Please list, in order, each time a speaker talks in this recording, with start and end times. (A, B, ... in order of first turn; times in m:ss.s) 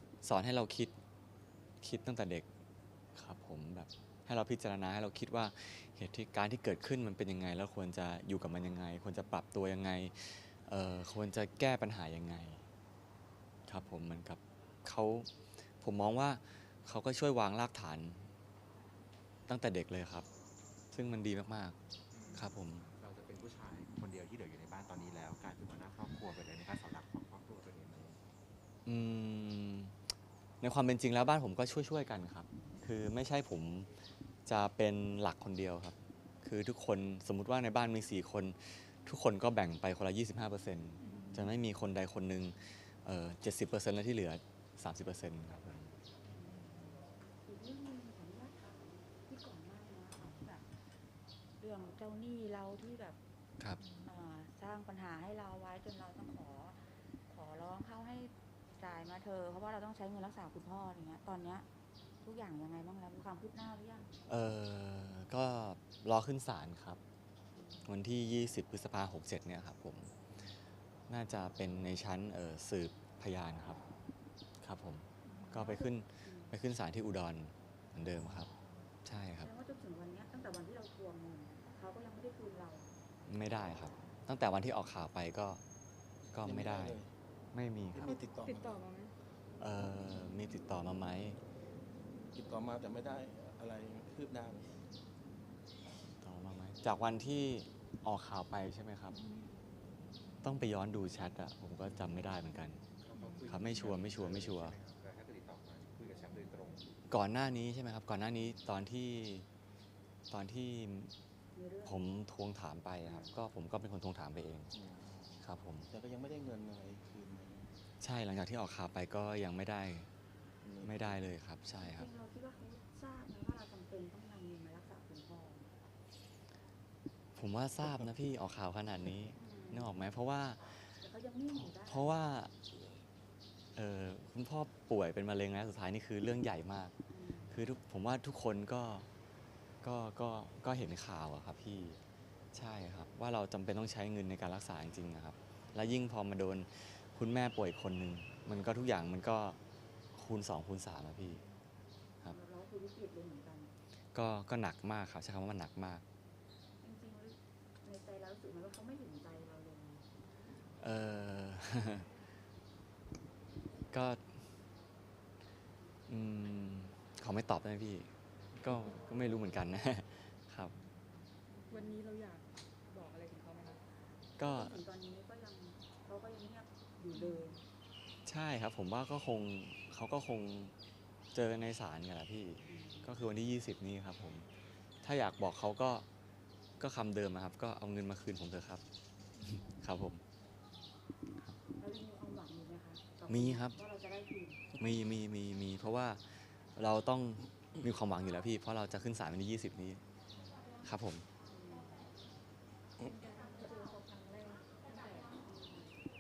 0:00.2-0:00.9 A
0:01.8-0:02.5 A
0:03.2-0:12.6 A
0:13.7-0:18.3 A
0:19.5-0:20.3 A
0:20.9-0:21.8 A
0:22.1-0:28.2 B
0:22.4-0:22.9 A
0:28.9-0:30.0 A
0:30.6-0:33.9 A
0:34.5-0:45.9 A
0:41.0-0:41.6 C
0:46.4-0:47.0 C
0:47.4-0:50.7 D
0:51.6-0:53.2 D
0:53.8-0:54.1 C
0:54.0-1:01.7 D
1:02.2-1:04.1 D
1:04.3-1:07.0 A
1:07.5-1:07.9 D
1:07.8-1:10.2 A
1:11.1-1:13.8 A
1:14.6-1:18.5 A
1:15.2-1:15.7 C
1:15.6-1:16.5 D
1:19.0-1:19.5 A
1:19.4-1:22.9 D
1:23.3-1:25.6 A
1:26.3-1:27.0 A
1:26.4-1:27.1 E
1:27.5-1:28.1 A
1:27.9-1:28.8 E
1:28.0-1:29.2 C
1:29.6-1:31.4 A
1:32.3-1:34.8 E
1:36.2-1:39.2 A
1:39.1-1:39.6 C
1:40.4-1:42.8 A
1:43.0-1:47.0 B
1:43.1-1:43.8 C
1:43.5-1:44.8 A
1:47.1-1:49.5 A
1:50.3-1:51.1 A
1:51.5-1:52.0 D
1:51.8-1:54.7 A
1:53.0-1:53.4 D
1:54.7-1:57.7 E
1:55.4-1:55.9 A
1:58.0-2:00.1 A
2:00.6-2:01.2 E
2:00.8-2:02.1 A
2:01.8-2:05.7 D
2:07.4-2:11.0 A
2:07.8-2:08.2 E
2:09.4-2:10.0 D
2:11.0-2:12.2 D
2:11.5-2:12.8 A
2:13.8-2:16.9 A
2:17.1-2:17.6 D
2:17.5-2:19.1 A
2:19.8-2:22.0 A
2:22.5-2:29.6 A
2:30.1-2:31.4 A
2:32.2-2:33.7 D
2:34.1-2:36.0 A
2:36.8-2:40.1 D
2:40.8-2:42.1 A
2:43.9-2:44.2 A
2:46.1-2:50.8 A
2:51.5-2:52.0 D
2:51.7-2:53.8 C
2:54.4-2:54.8 A
2:54.4-2:57.6 D
2:57.1-2:57.6 C
2:58.2-3:00.8 A
3:01.3-3:04.5 A
3:02.6-3:03.1 D
3:05.0-3:06.0 A
3:06.8-3:08.8 A
3:09.4-3:09.8 C
3:09.5-3:10.2 A
3:11.8-3:14.8 D
3:13.3-3:13.8 A
3:14.8-3:20.0 A
3:20.8-3:21.3 A
3:21.4-3:22.2 D
3:23.0-3:25.4 C
3:25.3-3:26.0 D